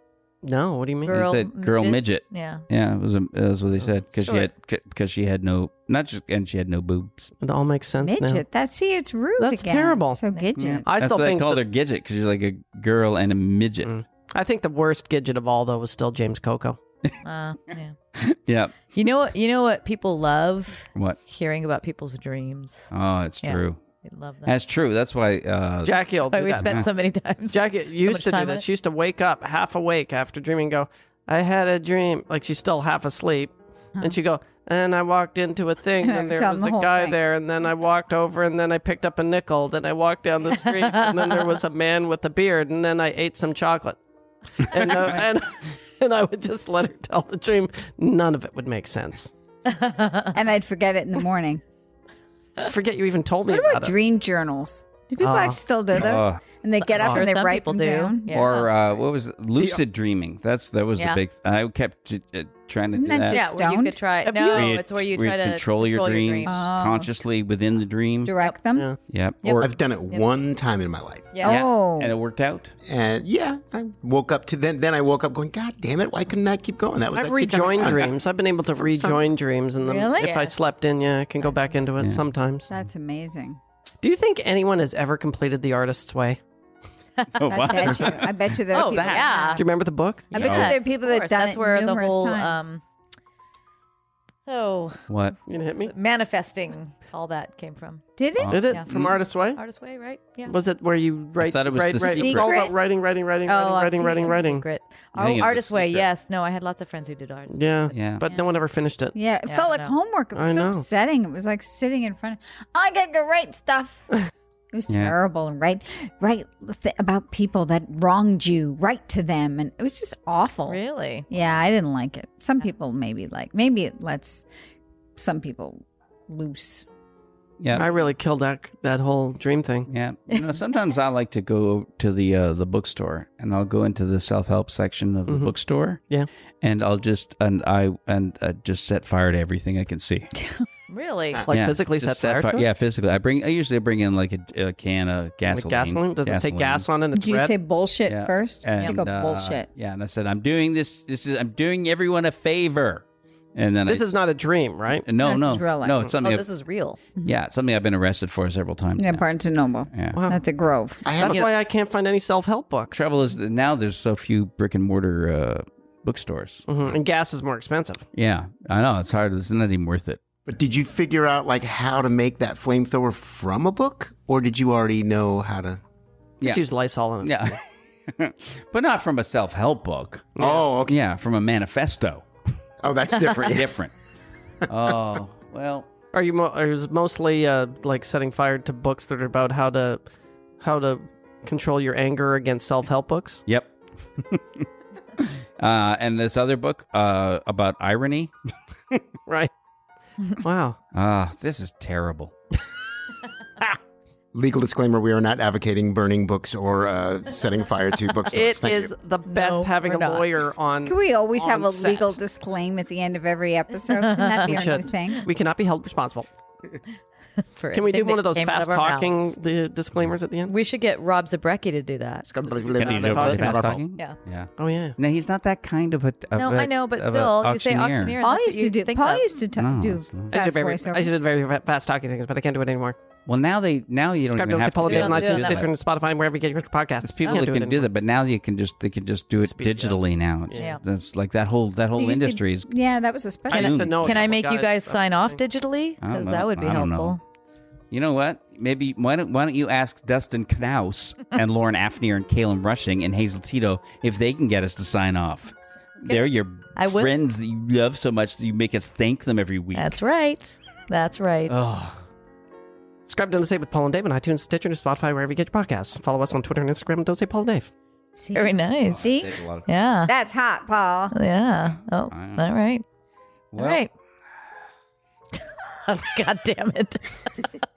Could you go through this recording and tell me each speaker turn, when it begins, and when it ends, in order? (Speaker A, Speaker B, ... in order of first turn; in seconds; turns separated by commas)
Speaker A: 0.4-1.2, Speaker B: 1.0-2.6, Speaker C: 1.1-7.3, Speaker B: 4.2-4.5, Speaker A: 7.4-8.4, Speaker D: 8.0-10.9, Speaker A: 9.4-10.2, Speaker C: 10.6-13.9, Speaker A: 10.8-11.6, Speaker A: 13.8-16.8, Speaker B: 17.2-18.0, Speaker C: 18.1-18.9, Speaker B: 18.9-22.9, Speaker C: 22.9-23.8, Speaker B: 23.4-24.6, Speaker C: 24.4-26.0, Speaker A: 25.8-26.8, Speaker B: 26.2-28.6, Speaker C: 26.6-26.9, Speaker A: 27.5-44.0, Speaker D: 36.0-37.2, Speaker B: 40.8-41.5, Speaker A: 44.5-49.3, Speaker C: 44.8-45.1, Speaker B: 49.6-50.4, Speaker D: 50.3-51.6, Speaker A: 52.6-53.9, Speaker D: 53.5-58.4, Speaker A: 55.2-55.6, Speaker C: 55.9-56.4, Speaker B: 56.8-58.7, Speaker A: 57.0-57.2, Speaker C: 58.3-63.4, Speaker D: 62.9-64.0, Speaker B: 63.3-66.6, Speaker A: 64.2-64.8, Speaker C: 64.5-68.3, Speaker D: 66.5-67.2, Speaker D: 68.2-68.9, Speaker C: 69.1-69.7, Speaker B: 69.4-70.2, Speaker E: 69.6-71.3, Speaker B: 71.3-71.6, Speaker D: 71.4-72.1, Speaker C: 71.4-72.7, Speaker E: 72.8-78.1, Speaker A: 77.1-82.7, Speaker D: 78.9-79.2, Speaker D: 79.8-80.5, Speaker B: 80.2-80.6, Speaker D: 82.7-83.6, Speaker A: 84.0-86.4, Speaker B: 87.2-88.0, Speaker C: 87.3-89.3, Speaker D: 87.5-89.6, Speaker B: 88.7-89.6, Speaker A: 89.6-90.5, Speaker D: 90.3-92.7, Speaker B: 90.3-92.8, Speaker C: 90.4-90.8, Speaker B: 94.5-95.0, Speaker C: 95.1-95.4, Speaker A: 95.5-95.9, Speaker B: 95.8-98.1, Speaker D: 98.2-98.7, Speaker C: 98.4-99.2, Speaker A: 98.5-99.6, Speaker B: 98.7-100.5, Speaker A: 100.5-104.6, Speaker C: 101.4-102.5, Speaker D: 102.0-102.7, Speaker B: 103.5-108.0, Speaker C: 105.2-106.1, Speaker A: 107.5-109.1, Speaker C: 107.9-108.2, Speaker D: 109.1-114.1, Speaker B: 109.5-109.9, Speaker A: 110.3-110.8, Speaker D: 114.7-124.5, Speaker C: 114.9-115.2, Speaker B: 120.7-121.3, Speaker D: 125.2-126.9, Speaker C: 127.6-127.9, Speaker A: 127.7-129.9, Speaker C: 129.9-136.0, Speaker C: 136.6-140.3, Speaker B: 140.9-141.5, Speaker A: 141.5-142.7, Speaker C: 141.5-146.9, Speaker A: 145.5-147.5, Speaker D: 147.1-149.7, Speaker C: 148.1-154.1, Speaker A: 153.9-155.1, Speaker C: 154.9-156.5, Speaker D: 155.2-156.1, Speaker B: 156.2-157.0, Speaker C: 157.2-159.2, Speaker D: 159.0-161.0, Speaker C: 159.9-160.2, Speaker A: 160.2-160.4, Speaker E: 161.1-161.4, Speaker A: 161.2-163.1, Speaker C: 161.2-161.5, Speaker C: 162.9-166.7, Speaker A: 166.7-168.1, Speaker C: 168.1-170.2, Speaker E: 170.5-175.8, Speaker A: 176.4-177.4, Speaker C: 177.2-182.3, Speaker A: 180.4-180.7, Speaker E: 180.4-180.9, Speaker E: 182.8-183.8, Speaker C: 183.4-183.9, Speaker C: 184.7-185.9, Speaker A: 186.1-190.0, Speaker A: 190.6-193.4, Speaker C: 193.5-198.3, Speaker A: 200.3-200.8, Speaker C: 200.9-202.3, Speaker E: 204.3-208.9, Speaker A: 208.3-212.2, Speaker B: 209.3-210.3, Speaker D: 210.9-215.2, Speaker B: 213.9-215.1, Speaker A: 214.5-216.3, Speaker B: 217.4-219.3, Speaker A: 217.7-220.5, Speaker B: 220.5-222.3, Speaker E: 222.2-223.8, Speaker A: 222.7-223.8, Speaker C: 222.8-228.2, Speaker A: 224.6-225.0, Speaker B: 226.3-229.3, Speaker D: 228.2-231.1, Speaker C: 229.6-230.3, Speaker A: 230.3-233.0, Speaker C: 233.3-235.7, Speaker A: 234.3-237.9, Speaker B: 234.8-235.7, Speaker C: 237.0-242.7, Speaker A: 239.4-240.7, Speaker B: 240.6-240.8, Speaker D: 241.9-243.9, Speaker A: 243.5-245.4, Speaker C: 243.5-244.2, Speaker B: 244.0-247.2, Speaker C: 246.0-247.2, Speaker C: 247.9-260.0, Speaker B: 256.8-257.1, Speaker B: 259.8-261.5, Speaker C: 261.5-262.0, Speaker A: 263.1-267.7, Speaker D: 268.1-269.3, Speaker B: 268.4-269.1, Speaker C: 268.9-269.7, Speaker B: 269.7-270.1, Speaker D: 270.1-271.1, Speaker B: 271.1-272.8, Speaker C: 272.1-272.4, Speaker C: 273.5-273.9, Speaker B: 273.6-273.9, Speaker B: 275.4-277.5